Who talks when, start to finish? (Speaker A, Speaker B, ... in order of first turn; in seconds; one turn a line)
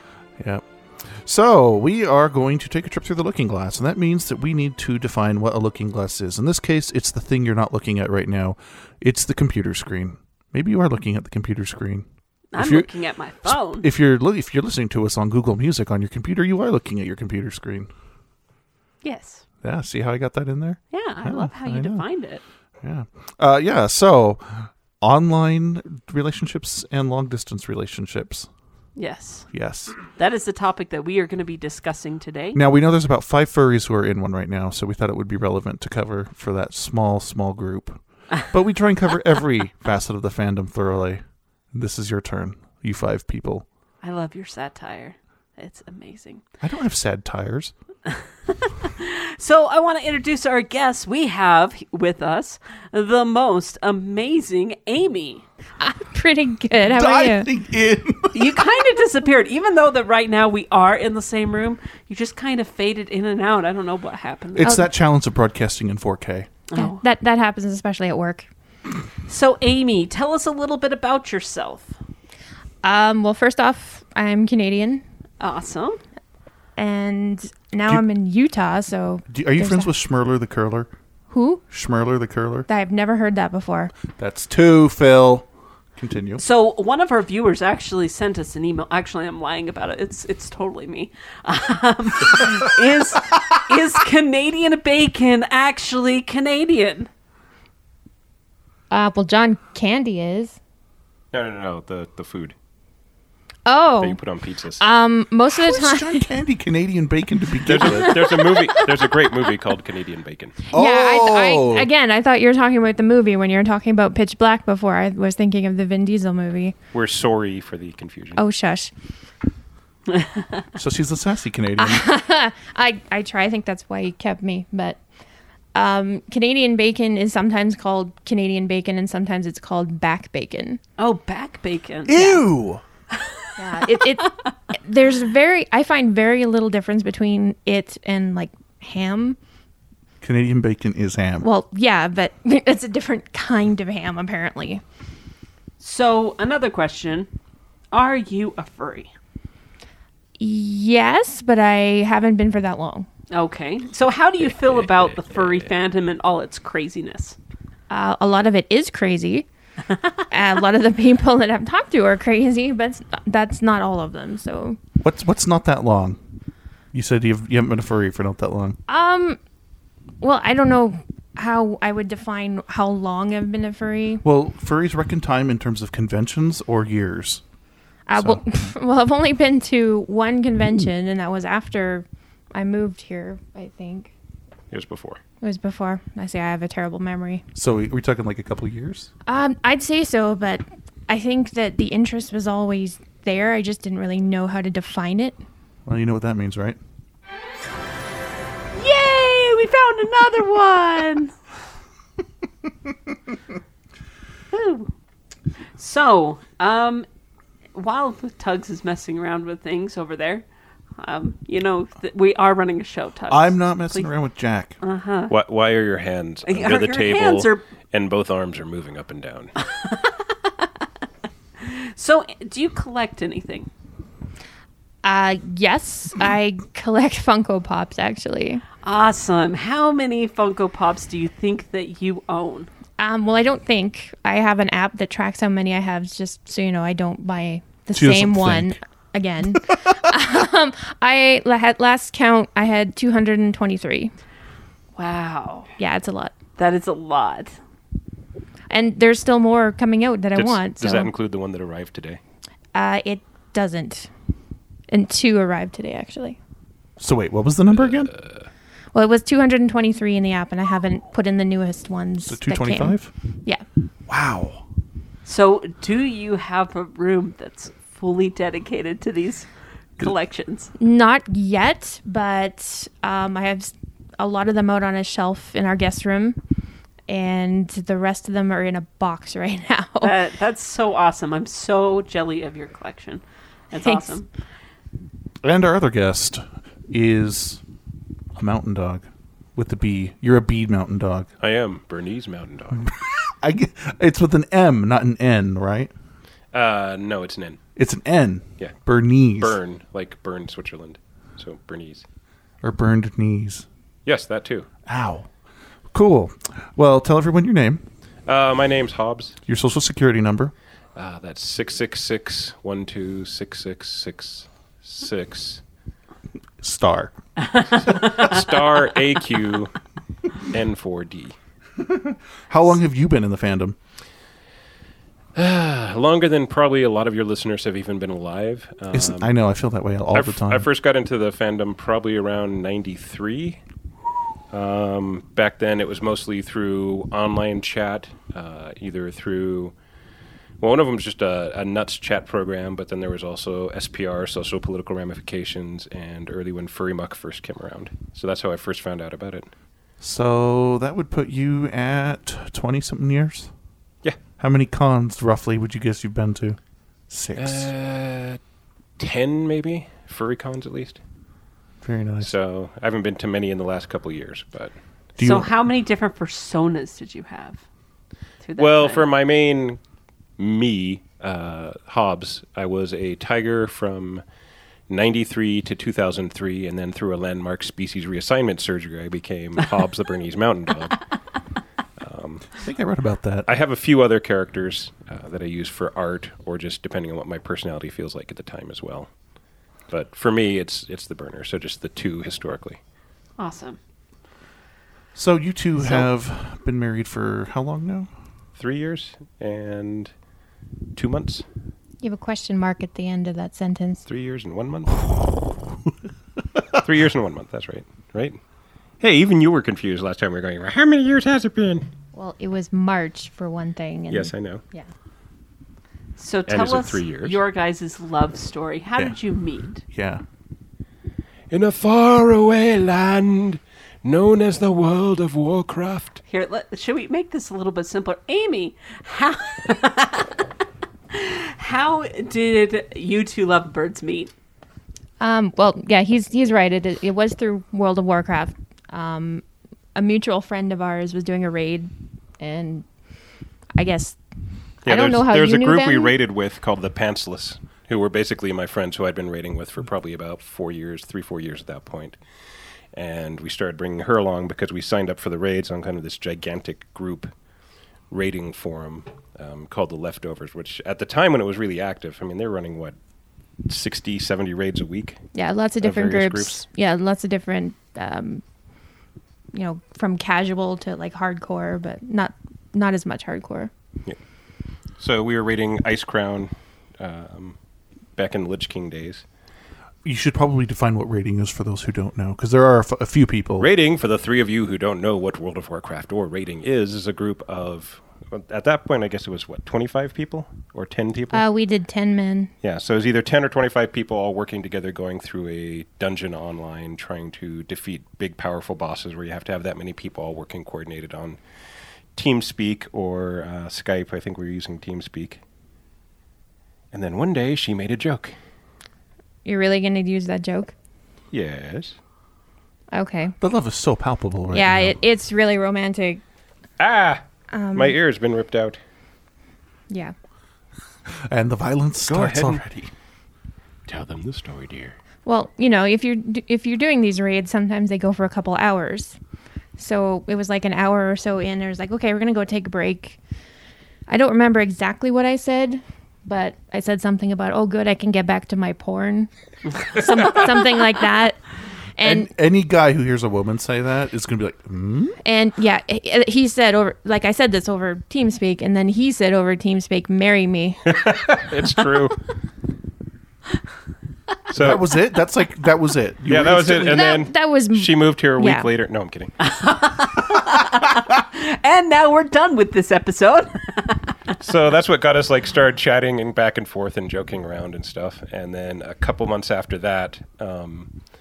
Speaker A: 0.4-17.9
Speaker B: 12.5-13.9
Speaker B: 19.0-19.5
Speaker A: 19.6-22.2
Speaker B: 20.9-22.4
Speaker A: 22.8-28.5
Speaker B: 28.9-32.6
Speaker A: 29.5-30.0
Speaker A: 32.5-43.7
Speaker B: 44.0-46.4
Speaker A: 46.6-47.7
Speaker B: 48.5-55.5
Speaker C: 55.8-57.5
Speaker A: 56.9-58.6
Speaker B: 58.3-64.8
Speaker A: 64.6-66.5
Speaker B: 66.7-67.0
Speaker C: 66.8-68.5
Speaker B: 69.3-72.0
Speaker C: 72.8-75.0
Speaker B: 75.4-76.0
Speaker C: 76.8-79.9
Speaker A: 79.3-80.9
Speaker C: 81.3-81.6
Speaker A: 81.7-82.7
Speaker C: 82.7-83.9
Speaker A: 84.2-86.4
Speaker B: 86.4-97.1
Speaker C: 98.9-100.6
Speaker D: 101.3-102.5
Speaker C: 103.7-104.2
Speaker D: 104.0-104.8
Speaker C: 104.8-106.2
Speaker A: 105.6-108.2
Speaker D: 107.7-110.6
Speaker C: 107.9-108.2
Speaker C: 110.7-116.8
Speaker A: 110.7-111.9
Speaker D: 116.9-118.4
Speaker C: 118.4-118.9
Speaker B: 120.1-120.6
Speaker A: 120.8-122.0
Speaker C: 121.8-125.0
Speaker C: 125.7-130.8
Speaker B: 131.0-132.4
Speaker A: 132.1-132.8
Speaker B: 133.1-133.5
Speaker C: 133.6-139.4
Speaker A: 140.2-141.5
Speaker C: 141.4-144.8
Speaker B: 145.8-147.3
Speaker B: 147.9-149.1
Speaker C: 150.4-153.1
Speaker B: 153.3-157.4
Speaker D: 154.4-155.7
Speaker C: 157.9-159.5
Speaker C: 160.3-164.8
Speaker A: 165.0-166.2
Speaker A: 166.9-168.8
Speaker C: 168.9-169.4
Speaker C: 170.2-174.2
Speaker A: 174.2-177.4
Speaker C: 178.1-184.1
Speaker A: 178.2-178.7
Speaker D: 184.7-185.2
Speaker C: 185.4-187.5
Speaker A: 187.6-189.1
Speaker C: 189.3-195.4
Speaker A: 195.9-196.8
Speaker B: 198.8-201.3
Speaker B: 204.5-204.9
Speaker B: 205.8-207.1
Speaker B: 207.7-210.5
Speaker B: 211.0-214.1
Speaker A: 213.3-214.8
Speaker B: 214.8-215.3
Speaker D: 215.3-219.6
Speaker B: 216.5-217.7
Speaker B: 219.7-220.8
Speaker B: 221.6-223.7
Speaker C: 225.0-228.6
Speaker B: 228.8-232.7
Speaker C: 233.0-244.1
Speaker A: 237.9-238.8
Speaker B: 245.0-245.7
Speaker C: 245.8-246.3
Speaker B: 246.6-247.6
Speaker C: 248.7-251.1
Speaker D: 250.3-252.2
Speaker C: 252.7-254.1
Speaker C: 254.9-256.4
Speaker A: 257.0-258.1
Speaker D: 257.7-258.5
Speaker C: 258.9-263.6
Speaker A: 262.2-263.1
Speaker A: 264.1-264.6
Speaker B: 265.2-270.7
Speaker C: 270.8-276.4
Speaker C: 277.1-280.1
Speaker B: 280.0-284.3
Speaker C: 283.8-284.2
Speaker A: 285.4-287.6
Speaker A: 288.4-291.3
Speaker D: 291.4-292.9
Speaker A: 292.7-295.9
Speaker D: 296.5-297.6
Speaker A: 297.8-299.6
Speaker D: 299.4-302.1
Speaker A: 302.6-303.7
Speaker D: 304.1-304.7
Speaker A: 304.9-305.3
Speaker A: 305.9-307.8
Speaker D: 308.3-309.4
Speaker A: 309.5-310.5
Speaker D: 310.9-315.6
Speaker A: 316.6-317.2
Speaker B: 317.4-318.3
Speaker D: 317.8-319.8
Speaker D: 320.4-321.4
Speaker A: 321.8-323.8
Speaker D: 325.4-329.3
Speaker A: 328.9-330.7
Speaker D: 330.1-333.6
Speaker D: 334.5-339.7
Speaker D: 340.6-349.5
Speaker A: 350.0-353.5
Speaker A: 354.4-357.7
Speaker D: 357.4-358.4
Speaker D: 359.0-361.0
Speaker A: 361.8-362.3
Speaker D: 362.2-364.8
Speaker A: 365.2-365.5
Speaker B: 365.2-367.7
Speaker B: 368.4-369.1
Speaker D: 368.6-369.8
Speaker D: 370.4-374.2
Speaker D: 374.9-381.2
Speaker D: 382.0-382.6
Speaker A: 382.6-383.5
Speaker D: 383.5-392.8
Speaker B: 393.4-393.8
Speaker A: 395.1-398.1
Speaker B: 395.8-396.1
Speaker D: 398.6-400.2
Speaker D: 400.9-401.5
Speaker C: 402.0-404.0
Speaker D: 404.1-405.5
Speaker D: 406.7-408.4
Speaker D: 409.0-411.9
Speaker C: 412.1-414.9
Speaker D: 414.1-414.6
Speaker B: 416.2-419.8
Speaker D: 416.5-417.4
Speaker A: 419.0-420.2
Speaker D: 421.5-426.2
Speaker B: 426.3-430.4
Speaker B: 431.1-434.3
Speaker C: 435.2-446.1
Speaker D: 444.9-457.3
Speaker D: 458.1-463.0
Speaker D: 463.6-466.7
Speaker C: 465.4-468.4
Speaker C: 469.5-473.7
Speaker D: 474.8-477.6
Speaker D: 478.1-479.3
Speaker A: 480.1-483.7
Speaker D: 483.6-491.4
Speaker C: 491.3-492.5
Speaker D: 492.6-505.4
Speaker D: 506.9-508.4
Speaker C: 509.4-510.7
Speaker D: 511.3-512.0
Speaker C: 512.9-513.4
Speaker A: 513.4-515.0
Speaker C: 514.5-516.2
Speaker D: 516.8-518.8
Speaker C: 517.5-518.0
Speaker A: 521.3-522.9
Speaker D: 522.1-522.6
Speaker D: 523.9-525.0
Speaker C: 525.2-529.2
Speaker C: 529.8-533.2
Speaker C: 534.1-542.3
Speaker A: 542.0-545.2
Speaker C: 545.2-550.9
Speaker D: 551.0-552.2
Speaker D: 554.5-554.9
Speaker A: 554.6-557.1
Speaker D: 556.3-559.3
Speaker C: 556.8-558.7
Speaker B: 559.4-564.1
Speaker D: 564.4-571.0